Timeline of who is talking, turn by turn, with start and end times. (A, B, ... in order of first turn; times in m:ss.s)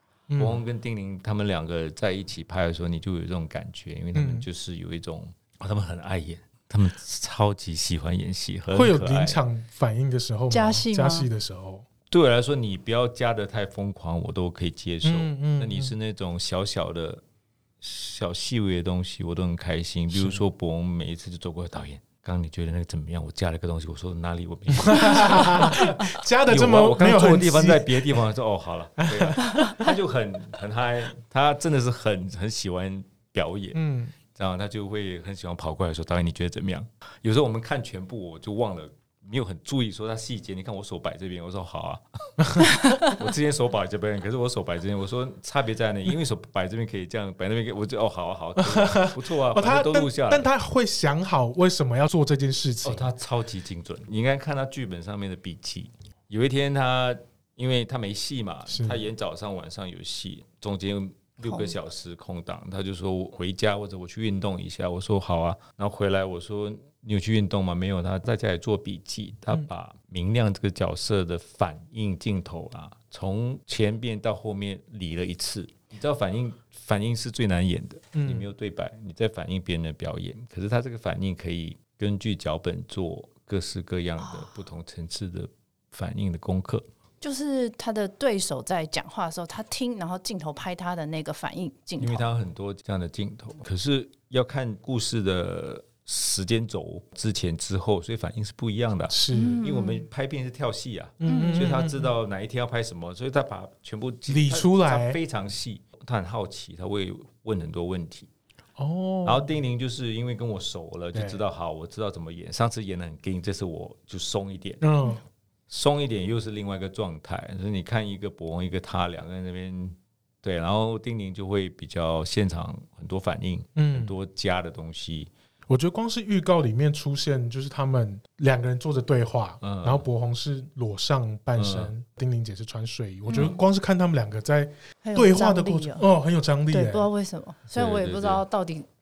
0:00.3-0:00.6 A
0:00.4-0:09.4 B
0:04.1-0:04.5 A
0:08.7-0:11.9 A
0:10.5-0:11.3 C
0:12.1-0:17.2 B
0:15.0-0:15.9 A
0:17.8-0:33.8 B
0:20.1-0:20.4 A
0:24.8-0:28.2 A
0:29.0-0:30.0 A
0:33.7-0:34.2 A
0:34.3-0:50.5 B
0:42.8-0:43.1 C
0:48.6-0:53.1 A
0:52.8-1:26.8 B
0:58.7-0:59.0 A
1:01.4-1:01.8 C
1:18.2-1:18.5 A
1:24.2-1:24.5 C
1:27.2-1:32.3 C
1:32.0-1:48.3 B
1:39.1-1:39.6 A
1:39.3-1:40.0 C
1:41.2-1:42.1 A
1:41.3-1:41.7 C
1:44.3-1:45.2 A
1:48.8-1:49.6 A
1:49.2-1:54.8 B
1:51.1-1:51.4 A
1:54.8-1:55.2 A
1:55.7-2:05.3 B
2:03.8-2:04.1 A
2:05.7-2:17.1 A
2:09.6-2:10.1 B
2:11.6-2:11.9 B
2:13.3-2:13.6 C
2:15.0-2:16.1 C
2:16.7-2:18.9 C
2:17.8-2:18.4 B